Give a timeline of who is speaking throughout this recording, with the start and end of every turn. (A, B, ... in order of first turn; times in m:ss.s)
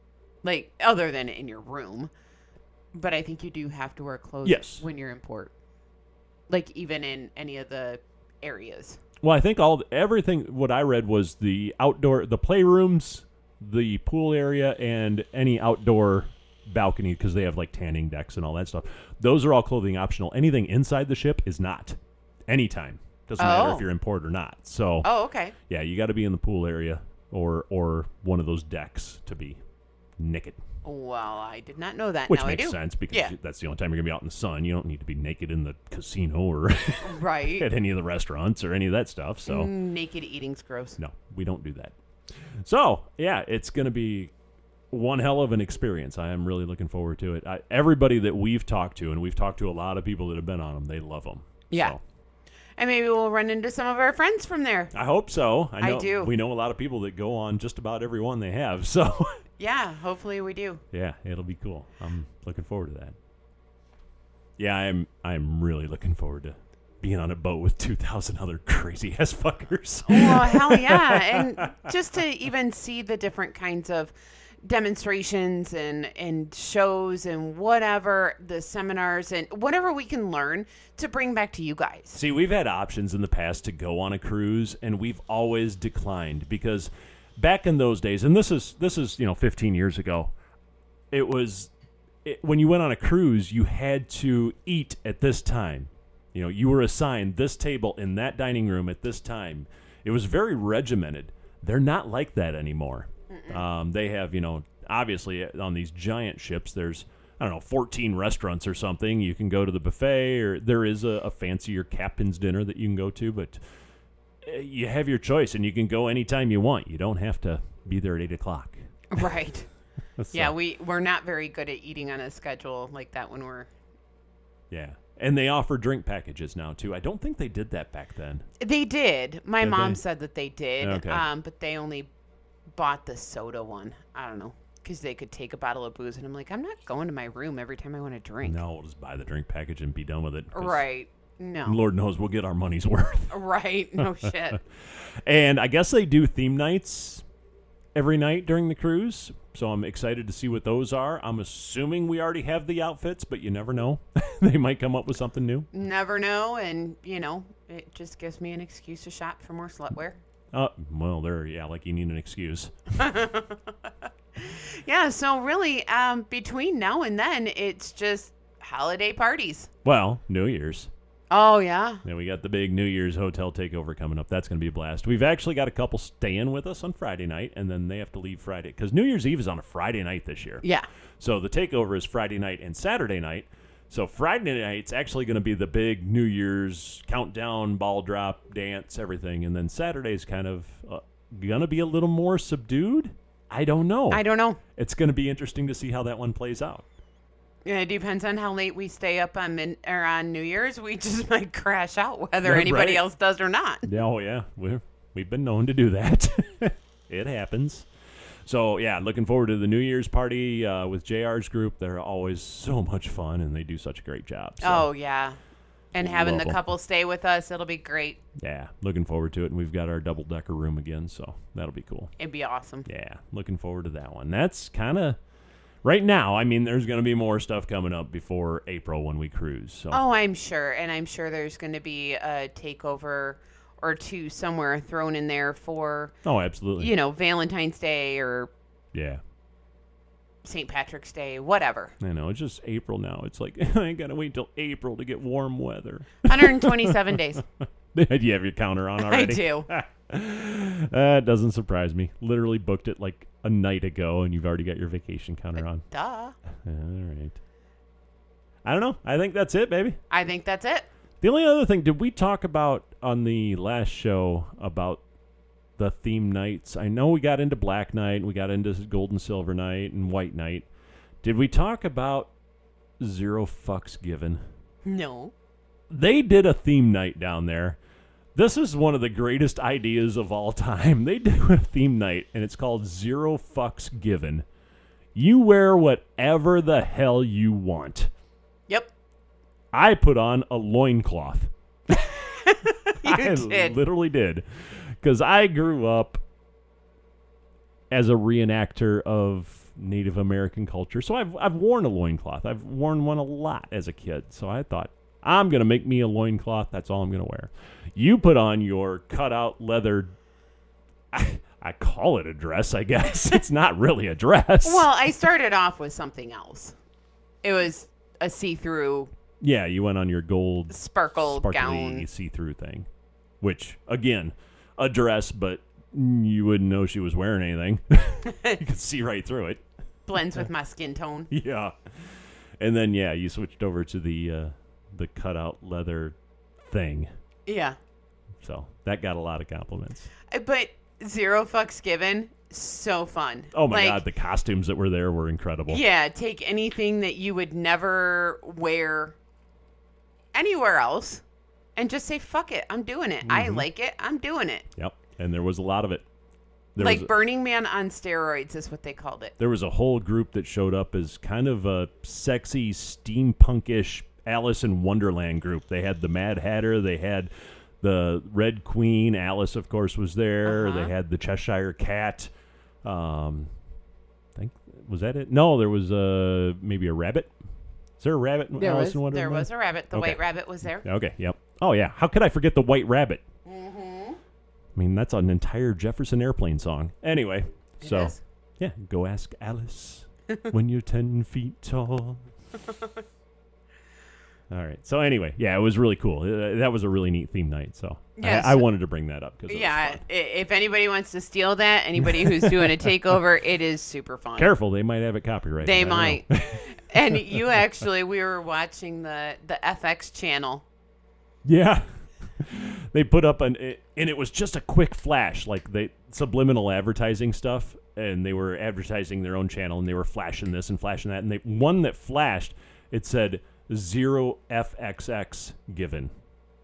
0:00.4-0:02.1 A
0:02.9-0:05.5 A
0:04.4-0:04.8 B
0:06.5-0:09.0 A
0:09.2-0:25.1 B
0:23.4-0:23.8 A
0:25.0-0:25.6 A
0:25.7-0:29.6 B
0:30.2-0:30.6 B
0:30.8-0:33.3 A
0:32.3-0:39.7 B
0:37.0-0:37.7 A
0:39.5-0:41.0 A
0:41.0-0:44.3 B
0:44.9-0:52.0 B
0:52.8-0:54.9 A
0:54.9-0:59.4 B
0:55.8-0:56.3 A
0:59.6-1:00.8 A
1:00.9-1:03.2 B
1:04.6-1:11.9 B
1:10.1-1:22.2 A
1:22.1-1:30.3 B
1:31.1-1:31.7 B
1:32.2-1:53.6 B
1:43.3-1:43.6 A
1:54.4-1:58.8 B
1:59.1-1:59.7 A
2:00.2-2:00.5 B
2:00.3-2:03.7 A
2:04.7-2:08.4 B
2:08.6-2:12.1 A
2:09.6-2:10.0 B
2:10.8-2:11.2 B
2:12.7-2:18.6 A
2:18.4-2:20.8 B
2:20.5-2:21.8 A
2:21.6-2:23.4 B
2:23.3-2:24.6 A
2:24.0-2:24.3 B
2:24.8-2:27.2 B
2:27.9-2:35.7 B
2:35.7-2:40.2 A
2:40.5-2:42.7 B
2:43.0-2:43.6 A
2:44.4-2:49.7 A
2:49.8-2:50.9 B
2:51.3-2:52.0 A
2:52.0-3:00.6 B
3:01.2-3:14.2 B
3:14.1-3:14.6 A
3:14.7-3:16.8 B
3:17.6-3:23.9 A
3:22.4-3:23.0 B
3:23.8-3:27.9 B
3:28.4-3:34.9 B
3:34.6-3:35.4 A
3:35.9-3:38.2 A
3:36.0-3:36.6 B
3:38.4-3:42.1 B
3:42.2-3:42.8 A
3:42.8-3:45.2 B
3:45.8-3:50.0 B
3:49.9-3:56.1 A
3:56.2-3:56.9 B
3:56.8-3:58.5 A
3:58.9-3:59.2 B
4:00.4-4:01.9 A
4:02.0-4:15.8 B
4:06.2-4:07.4 A
4:09.0-4:09.7 A
4:15.8-4:16.4 A
4:16.6-4:17.4 B
4:18.6-4:20.0 B
4:20.1-4:20.8 A
4:21.2-4:25.0 B
4:25.8-4:30.7 B
4:31.2-4:32.3 B
4:33.0-4:34.4 B
4:34.8-4:35.3 A
4:35.9-4:37.8 B
4:38.3-4:44.4 B
4:45.1-4:48.1 B
4:49.7-4:51.5 B
4:51.9-4:53.8 A
4:53.0-4:56.2 B
4:57.9-5:10.1 B
5:11.1-5:14.9 B
5:14.6-5:16.7 A
5:17.4-5:19.1 A
5:19.4-5:22.9 B
5:20.7-5:22.0 A
5:23.4-5:29.6 B
5:28.3-5:28.6 A
5:30.1-5:31.3 A
5:31.3-5:37.1 B
5:37.5-5:37.8 A
5:38.4-5:40.1 B
5:40.3-5:44.0 A
5:43.5-5:45.8 B
5:45.7-5:49.2 A
5:50.3-5:51.2 A
5:51.8-5:54.7 A
5:53.2-5:53.7 B
5:54.8-5:56.0 B
5:56.7-5:57.1 B
5:56.8-5:59.3 A
5:59.4-6:12.3 B
6:10.4-6:10.9 A
6:12.8-6:13.5 B
6:14.3-6:17.3 B
6:18.0-6:23.2 B
6:18.6-6:20.9 A
6:23.4-6:24.2 A
6:24.7-6:32.3 B
6:27.8-6:28.2 A
6:34.5-6:40.0 B
6:38.2-6:38.7 A
6:39.5-6:44.5 A
6:42.0-6:43.2 B
6:44.4-6:47.6 B
6:45.6-6:50.6 A
6:51.4-6:51.8 B
6:52.4-7:06.1 B